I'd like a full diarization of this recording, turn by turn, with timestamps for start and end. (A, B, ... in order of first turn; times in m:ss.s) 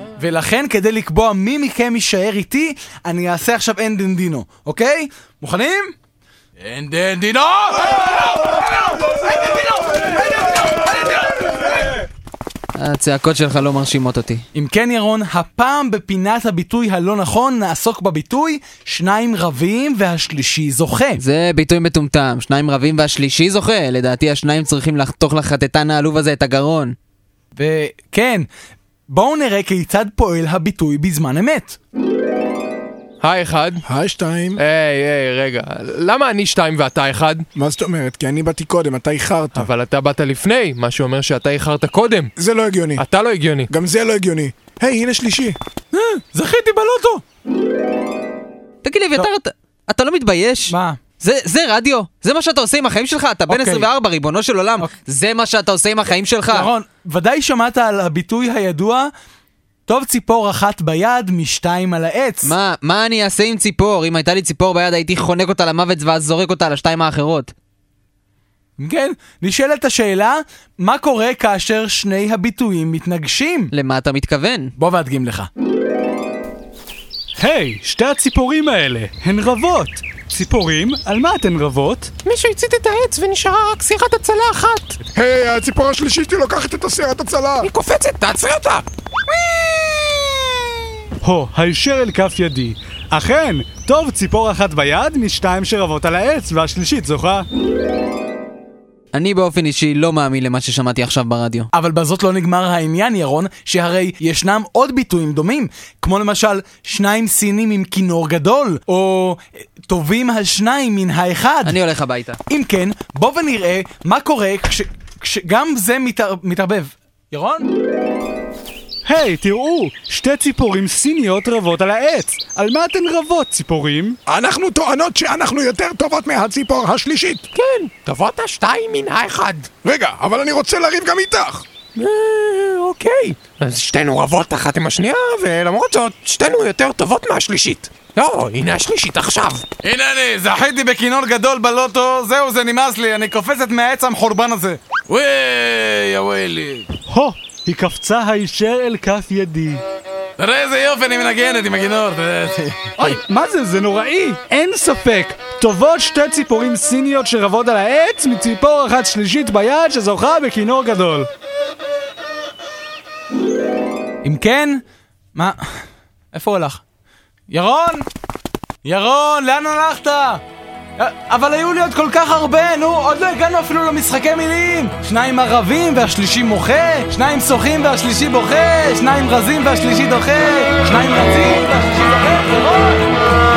0:00.1-0:06.0 A
0:06.6-0:08.1 A
0:12.8-0:14.4 B
0:14.5-0:21.2 A
0:21.2-0:27.0 B
0:27.5-0:28.5 A
0:29.1-0:31.8 A
0:33.2-0:33.8 C
0:33.8-0:34.6 D
0:34.6-0:37.4 C
0:37.5-0:39.7 D
0:39.5-0:42.3 C
0:42.4-0:43.0 D
0:43.0-0:43.7 C
0:43.7-0:45.6 D
0:45.9-0:47.2 A
0:48.8-0:56.7 B
0:50.7-0:51.0 A
0:53.5-0:53.9 A
0:56.5-0:59.1 A
0:59.9-1:02.5 A
1:02.4-1:07.5 B
1:08.8-1:13.7 A
1:13.7-1:14.7 B
1:14.8-1:15.5 A
1:17.4-1:22.1 E
1:22.2-1:25.0 C
1:25.1-1:27.7 D
1:27.6-1:28.8 C
1:29.5-1:30.2 C
1:31.2-1:37.5 E
1:39.1-1:41.7 B
1:41.7-1:51.8 A
1:51.6-1:52.4 B
1:52.5-1:57.7 A
1:59.0-2:04.2 E
2:04.2-2:07.5 D
2:07.5-2:09.7 C
2:09.8-2:11.6 D
2:12.0-2:19.6 C
2:19.8-2:26.9 A
2:27.1-2:29.8 E
2:30.4-2:33.2 A
2:33.0-2:41.3 E
2:44.2-2:44.8 A
2:45.3-2:46.8 A
2:47.5-2:48.0 A
2:48.8-2:50.4 A
2:51.0-3:03.1 A